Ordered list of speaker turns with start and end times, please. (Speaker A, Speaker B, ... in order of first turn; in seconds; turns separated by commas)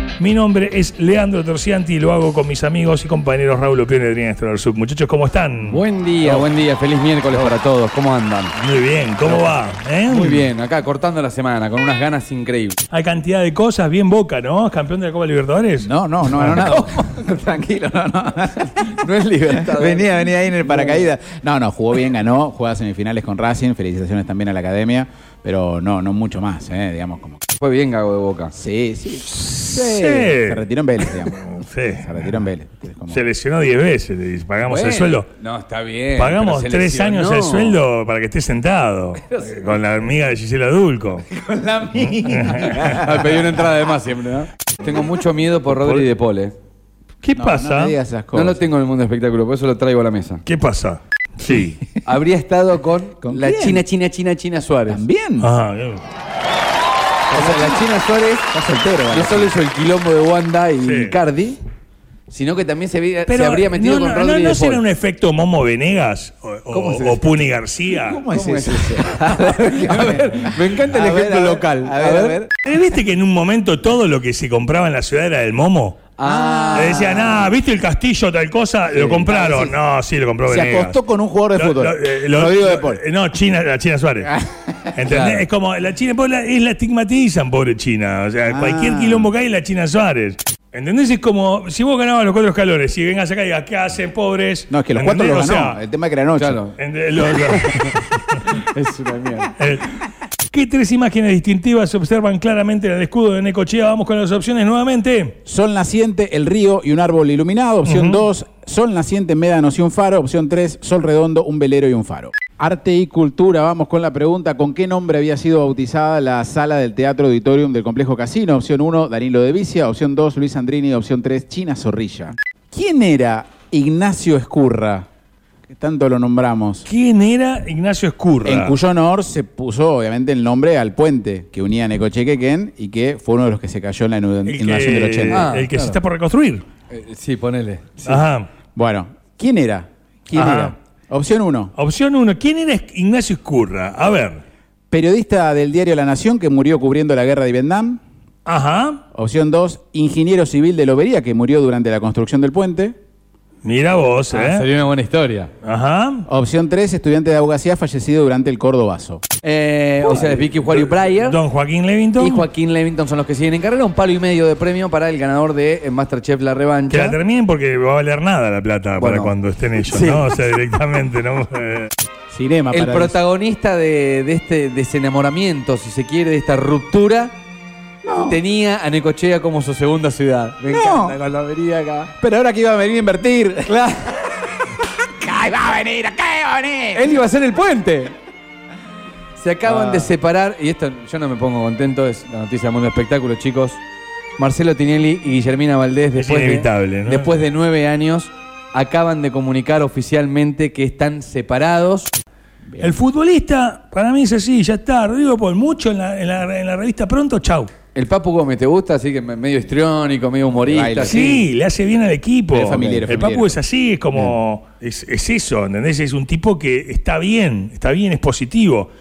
Speaker A: 0.2-6.5, Speaker B: 5.6-8.6, Speaker A: 8.6-10.5, Speaker B: 9.2-9.5, Speaker B: 10.1-12.8, Speaker A: 12.9-16.7, Speaker C: 15.8-27.4, Speaker B: 16.6-17.0, Speaker B: 18.7-20.1, Speaker B: 20.6-21.0, Speaker B: 27.6-28.5, Speaker C: 28.5-33.2, Speaker A: 29.4-32.3, Speaker A: 33.1-35.3, Speaker B: 34.6-37.8, Speaker A: 36.1-41.3, Speaker C: 41.3-43.6, Speaker A: 42.2-43.0, Speaker B: 42.9-46.5, Speaker A: 45.7-46.1, Speaker A: 47.2-48.0, Speaker C: 47.4-48.6, Speaker B: 48.3-50.4, Speaker A: 50.5-51.8, Speaker B: 52.0-55.0, Speaker C: 53.2-53.8, Speaker C: 54.9-55.5, Speaker A: 55.4-56.0, Speaker C: 57.3-57.9, Speaker B: 57.3-58.5, Speaker C: 58.5-59.5, Speaker B: 59.1-61.6, Speaker A: 60.8-61.2, Speaker B: 62.3-64.8, Speaker A: 63.3-68.2, Speaker B: 66.7-67.3, Speaker C: 67.9-72.5, Speaker B: 68.3-72.4, Speaker A: 72.6-76.1, Speaker B: 76.2-77.4, Speaker C: 76.2-77.4, Speaker A: 76.7-81.0, Speaker B: 79.0-79.7, Speaker C: 79.1-79.6, Speaker C: 80.5-83.0, Speaker A: 81.5-84.3, Speaker C: 84.3-84.9, Speaker A: 84.9-95.8, Speaker B: 85.0-85.5, Speaker C: 88.5-89.3, Speaker C: 94.7-96.6, Speaker B: 96.3-97.9, Speaker A: 96.8-98.4, Speaker B: 98.4-99.5, Speaker A: 99.6-105.4, Speaker C: 105.4-125.1, Speaker A: 107.8-108.2, Speaker C: 125.7-126.8, Speaker A: 126.8-128.7, Speaker C: 128.4-135.5, Speaker A: 134.4-136.6, Speaker B: 135.3-136.0, Speaker B: 136.9-138.2, Speaker A: 138.1-138.5, Speaker C: 138.7-141.7, Speaker A: 140.3-140.7, Speaker A: 141.7-144.4, Speaker C: 144.9-148.0, Speaker A: 148.4-149.0, Speaker C: 149.1-152.9, Speaker A: 153.6-154.7, Speaker B: 154.3-155.5, Speaker A: 155.6-156.2, Speaker C: 156.3-159.2, Speaker B: 159.4-161.4, Speaker A: 160.1-162.5, Speaker B: 162.2-167.2, Speaker A: 166.9-171.9, Speaker B: 169.0-170.3, Speaker C: 172.3-173.2, Speaker B: 172.7-177.3, Speaker C: 178.0-178.4, Speaker B: 178.2-182.1, Speaker C: 180.7-181.2, Speaker C: 182.1-183.8, Speaker B: 183.7-184.2, Speaker C: 184.7-187.2, Speaker B: 186.9-188.1, Speaker B: 189.3-193.8, Speaker C: 189.6-190.1, Speaker B: 194.4-202.1, Speaker A: 196.2-197.3, Speaker C: 202.7-203.0, Speaker A: 202.8-207.7, Speaker B: 207.9-211.4, Speaker C: 210.6-211.4, Speaker A: 211.0-218.9, Speaker C: 212.5-213.6, Speaker B: 212.5-213.1